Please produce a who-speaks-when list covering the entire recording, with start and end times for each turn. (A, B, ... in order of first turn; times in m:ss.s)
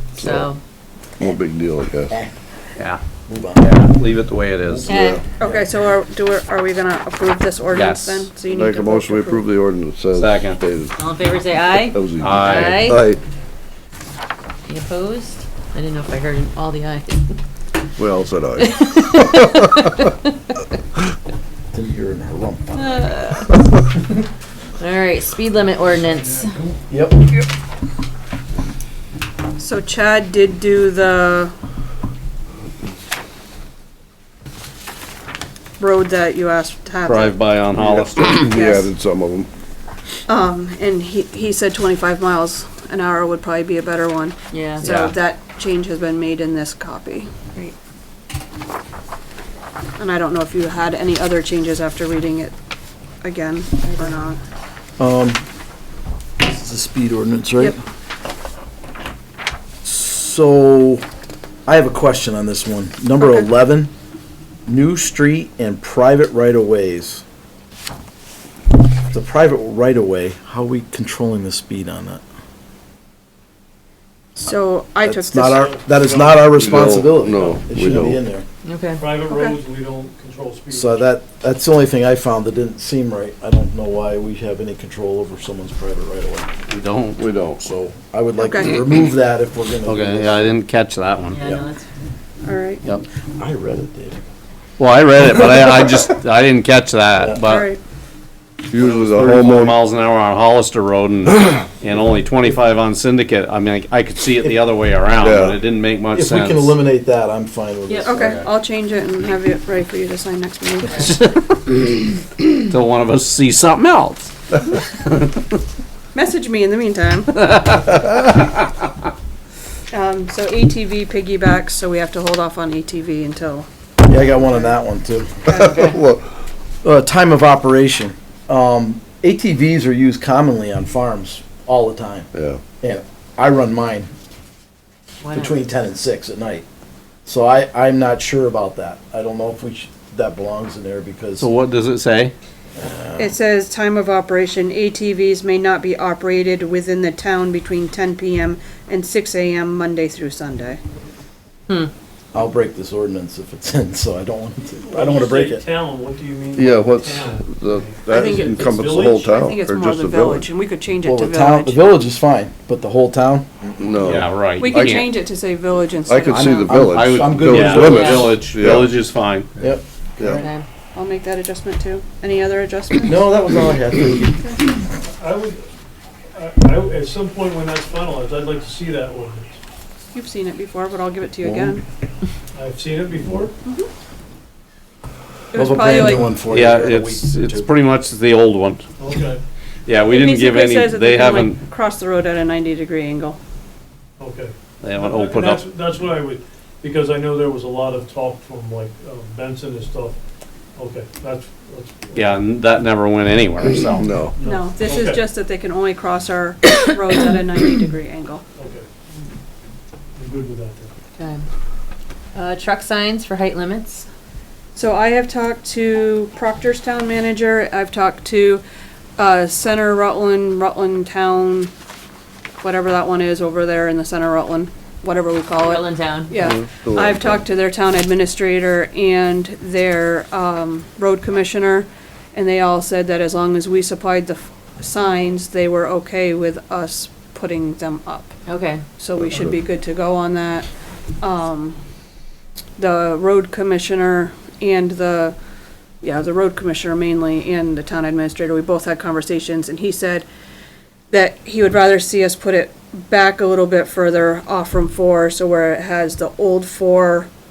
0:00.2-0:00.6 A
0:00.2-0:00.5 B
0:01.2-0:02.1 B
0:03.3-0:03.7 C
0:03.6-0:04.9 D
0:04.7-0:05.2 B
0:04.9-0:05.2 A
0:05.4-0:09.5 E
0:05.4-0:05.6 C
0:07.7-0:08.3 D
0:08.5-0:11.0 B
0:10.1-0:10.6 D
0:11.0-0:13.0 A
0:11.5-0:13.2 B
0:12.2-0:13.0 D
0:14.7-0:17.3 A
0:18.0-0:20.1 B
0:18.8-0:19.8 A
0:21.7-0:23.2 C
0:22.7-0:23.5 A
0:24.8-0:26.5 A
0:26.9-0:27.3 C
0:29.6-0:31.5 E
0:35.8-0:37.5 E
0:37.0-0:38.3 D
0:37.7-0:39.5 B
0:38.2-0:38.9 E
0:40.3-0:47.3 E
0:44.5-0:44.9 A
0:44.8-0:45.1 D
0:50.0-0:52.5 E
0:53.2-0:54.4 E
0:53.8-0:54.3 A
0:55.0-0:55.4 C
0:56.4-0:57.8 C
0:59.8-1:01.0 C
1:01.6-1:03.9 C
1:03.2-1:03.5 E
1:04.7-1:07.2 C
1:09.1-1:12.2 C
1:14.4-1:15.6 E
1:15.0-1:18.4 C
1:15.5-1:17.6 F
1:16.5-1:18.2 B
1:18.6-1:19.1 A
1:19.0-1:21.0 F
1:19.3-1:19.6 E
1:20.7-1:26.5 C
1:26.7-1:27.2 D
1:27.2-1:27.6 B
1:27.6-1:30.4 C
1:28.4-1:28.8 E
1:29.8-1:31.4 D
1:31.3-1:31.8 A
1:32.4-1:32.8 E
1:33.4-1:34.2 C
1:34.8-1:37.7 D
1:37.4-1:37.8 E
1:38.7-1:39.8 B
1:38.8-1:46.8 D
1:45.2-1:45.6 B
1:46.1-1:48.4 C
1:48.0-1:51.2 E
1:48.2-1:48.4 D
1:51.0-1:52.0 D
1:52.6-1:55.4 D
1:56.1-1:57.4 E
1:57.3-1:58.5 D
1:59.9-2:03.7 E
2:04.0-2:05.8 C
2:04.3-2:04.8 E
2:05.5-2:06.0 E
2:05.5-2:06.2 B
2:06.8-2:12.3 C
2:12.3-2:12.6 B
2:12.8-2:14.1 C
2:15.2-2:15.7 A
2:15.3-2:16.6 C
2:17.2-2:21.5 C
2:21.4-2:22.3 D
2:22.8-2:23.3 C
2:23.2-2:30.8 E
2:32.3-2:35.6 C
2:34.8-2:39.4 F
2:36.5-2:40.5 B
2:38.1-2:38.6 E
2:39.4-2:41.9 E
2:41.0-2:44.2 C
2:43.8-2:45.1 B
2:44.0-2:45.0 D
2:44.6-2:46.8 E
2:46.0-2:49.0 B
2:46.3-2:48.4 C
2:46.8-2:49.5 D
2:48.0-2:48.3 A
2:49.6-2:50.4 C
2:50.2-2:50.4 B
2:50.2-2:50.6 A
2:50.9-2:53.4 E
2:53.0-2:54.8 C
2:55.0-2:55.6 F
2:56.3-2:59.6 F
3:00.1-3:01.8 E
3:01.4-3:01.7 C
3:02.5-3:03.5 F
3:03.6-3:03.9 E
3:05.5-3:06.4 E
3:05.5-3:07.7 C
3:06.4-3:08.8 D
3:09.0-3:09.4 F
3:09.8-3:11.6 D
3:10.1-3:13.4 E
3:14.2-3:20.2 F
3:14.8-3:15.6 D
3:20.8-3:22.4 F
3:22.1-3:24.1 D
3:24.0-3:24.3 B
3:24.4-3:25.2 F
3:24.4-3:28.4 E
3:28.6-3:28.8 F
3:30.2-3:30.9 F
3:31.2-3:31.4 A
3:32.3-3:34.0 A
3:34.7-3:38.6 E
3:39.2-3:41.7 E
3:42.6-3:58.3 E
3:45.6-3:46.4 A
3:46.4-3:47.4 B
3:58.4-3:58.8 A
3:59.0-4:00.7 E
3:59.2-3:59.5 B
4:01.2-4:01.8 E
4:02.8-4:05.4 E
4:06.0-4:10.3 E
4:11.1-4:17.3 E